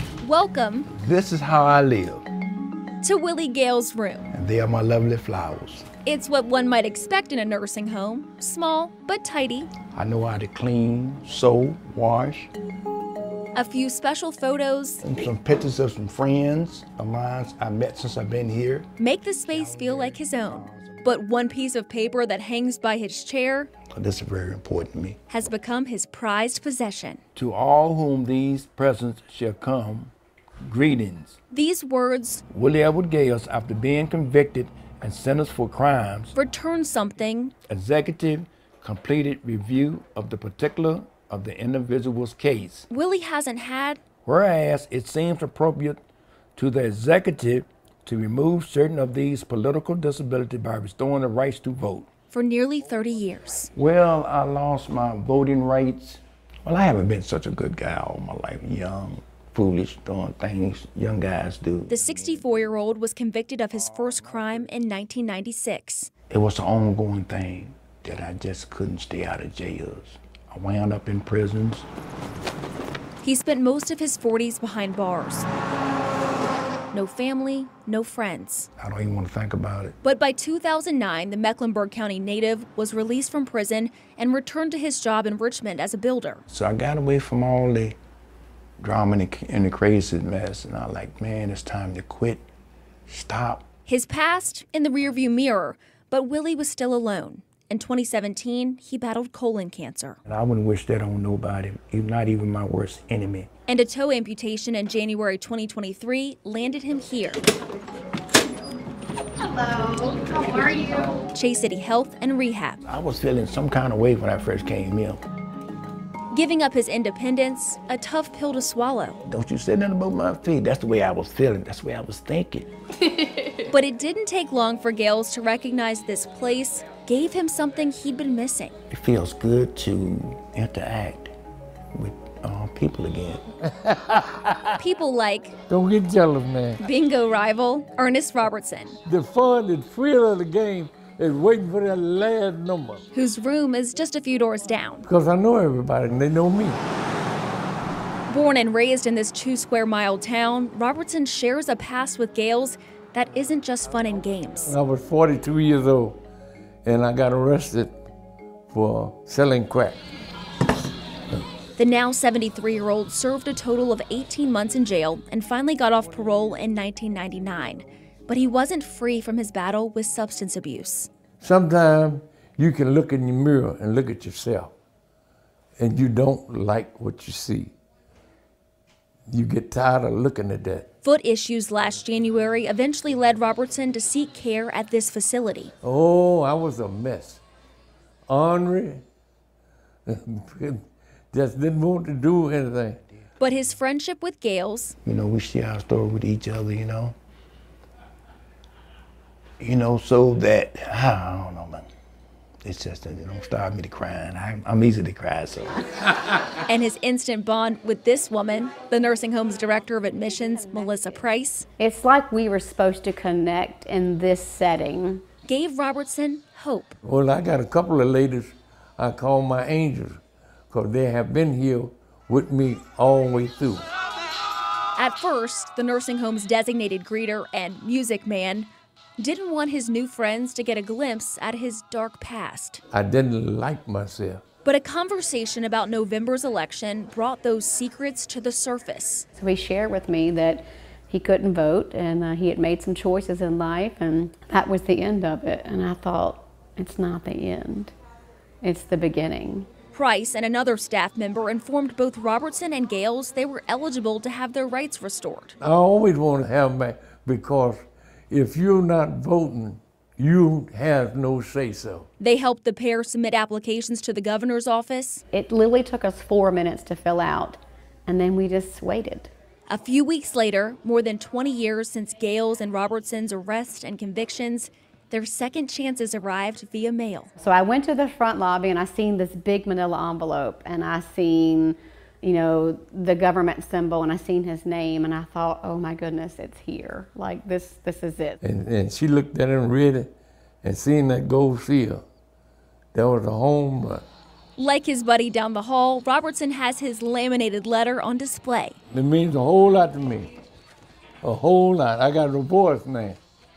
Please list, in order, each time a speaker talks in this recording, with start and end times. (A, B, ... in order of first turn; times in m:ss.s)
0:00.2-0:00.9 A
0:00.9-0:02.3 B
0:03.0-0:04.3 A
0:04.3-0:05.9 B
0:06.0-0:09.7 A
0:09.9-0:12.5 B
0:13.6-0:15.0 A
0:15.0-0:18.9 B
0:19.0-0:23.7 A
0:19.5-0:21.2 B
0:23.9-0:25.2 B
0:25.3-0:27.2 A
0:27.4-0:31.4 B
0:31.5-0:32.4 A
0:32.5-0:36.4 B
0:36.4-0:37.5 A
0:37.7-0:42.9 B
0:42.9-0:44.0 A
0:44.2-0:46.0 B
0:46.6-0:52.1 B
0:52.3-0:53.7 A
0:53.8-1:02.7 B
1:01.9-1:06.1 A
1:03.7-1:04.8 B
1:06.3-1:11.9 B
1:13.2-1:15.5 A
1:16.9-1:18.7 A
1:18.8-1:20.0 B
1:20.0-1:26.4 A
1:26.5-1:28.0 B
1:28.8-1:32.5 B
1:33.1-1:33.6 B
1:33.9-1:40.2 A
1:40.3-1:43.5 B
1:43.7-1:47.4 A
1:49.4-1:51.2 C
1:51.3-1:52.8 A
1:52.8-1:55.2 B
1:56.3-1:59.2 A
1:59.2-2:02.7 B
2:03.6-2:08.8 A
2:08.9-2:11.3 B
2:11.9-2:13.4 B
2:13.7-2:14.8 D
2:14.8-2:15.5 A
2:15.7-2:16.8 D
2:16.8-2:19.0 A
2:19.0-2:23.0 D
2:23.1-2:25.1 A
2:25.1-2:26.8 D
2:28.3-2:34.8 A
2:34.7-2:36.2 D
2:36.8-2:38.0 D
2:38.7-2:40.0 D
2:41.8-2:51.1 A
2:51.4-2:54.7 D
2:55.8-2:57.8 D
2:59.3-3:00.9 D
3:01.0-3:05.7 A
3:05.8-3:07.4 D
3:08.3-3:09.0 D
3:10.1-3:13.0 D
3:13.4-3:15.0 A
3:15.0-3:17.2 B
3:19.6-3:21.9 B
3:22.6-3:25.8 B
3:26.7-3:31.7 A
3:30.8-3:31.1 C
3:31.8-3:35.2 C
3:35.5-3:37.0 A
3:37.0-3:43.9 D
3:45.0-3:52.8 A
3:52.9-3:54.4 D
3:54.6-3:59.3 A
3:59.4-4:07.9 C
4:08.6-4:09.7 C
4:09.9-4:15.6 A
4:15.6-4:22.1 D
4:22.2-4:25.2 A
4:25.3-4:29.3 C
4:29.7-4:37.3 A
4:37.4-4:48.4 C
4:48.4-4:52.0 D
4:52.9-4:54.0 D
4:54.6-4:58.8 A
4:58.9-5:00.3 D
5:01.2-5:03.2 D